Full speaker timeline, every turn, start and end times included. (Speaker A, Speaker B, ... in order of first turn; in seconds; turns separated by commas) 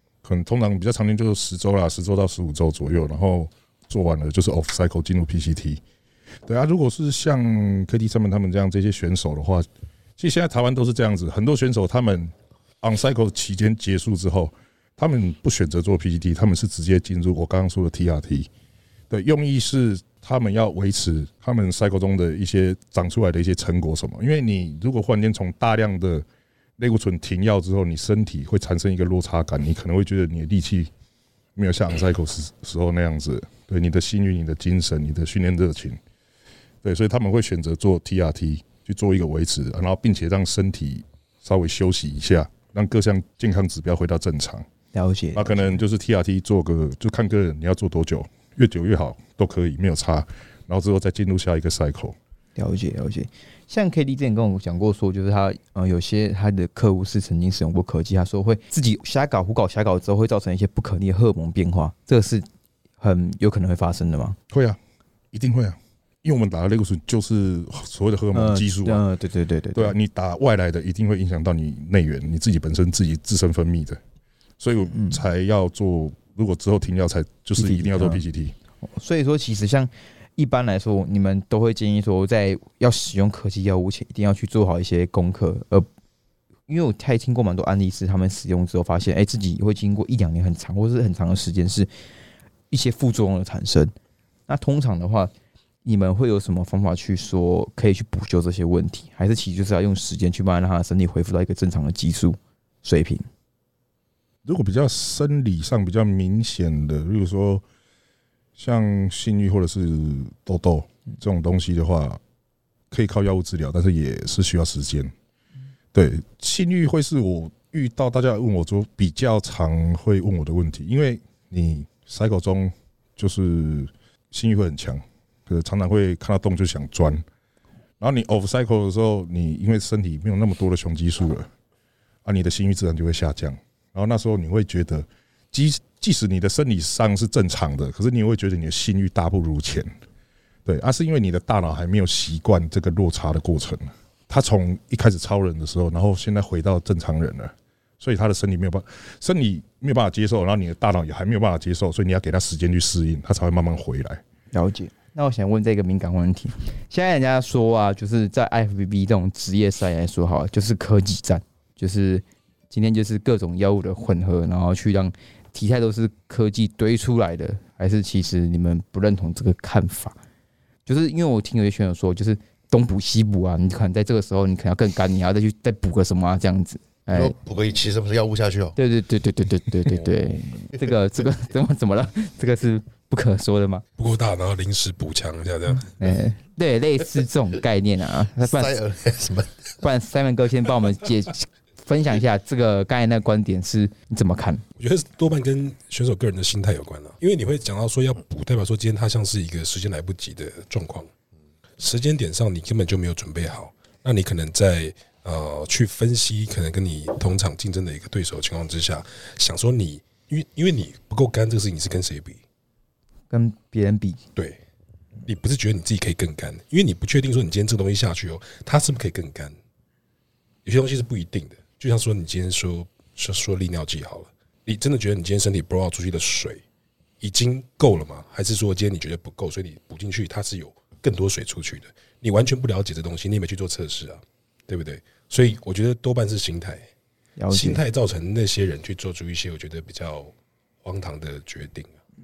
Speaker A: 0.2-5.8, Speaker A: 6.5-9.7, Speaker A: 10.2-18.5, Speaker A: 19.1-26.2, Speaker A: 26.8-30.9, Speaker A: 31.6-36.0, Speaker A: 36.8-44.6, Speaker B: 44.9-45.8, Speaker A: 45.3-52.1, Speaker B: 52.5-62.5, Speaker B: 63.0-64.4, Speaker A: 64.5-64.8, Speaker A: 65.3-69.0, Speaker B: 68.3-69.9, Speaker A: 69.7-74.0, Speaker A: 74.6-78.5, Speaker B: 74.9-75.2, Speaker B: 77.6-78.2, Speaker B: 79.0-85.9, Speaker B: 86.7-91.9, Speaker B: 92.7-93.9, Speaker B: 94.5-95.3, Speaker B: 95.8-103.2, Speaker A: 104.4-107.6, Speaker A: 108.6-112.2, Speaker A: 112.9-115.1, Speaker A: 115.9-127.2, Speaker A: 128.0-131.5, Speaker A: 132.2-139.9, Speaker A: 140.7-154.2, Speaker B: 154.5-170.2, Speaker B: 170.8-177.3, Speaker C: 177.1-178.8, Speaker B: 178.8-183.8, Speaker D: 184.0-185.9, Speaker B: 185.9-188.8, Speaker C: 188.4-189.7, Speaker B: 189.8-194.6, Speaker D: 194.8-201.1, Speaker D: 201.8-212.4, Speaker B: 213.3-214.2, Speaker D: 215.2-219.6, Speaker D: 220.6-226.6, Speaker D: 227.2-236.8, Speaker B: 237.4-237.8, Speaker D: 237.5-240.3, Speaker D: 240.8-241.9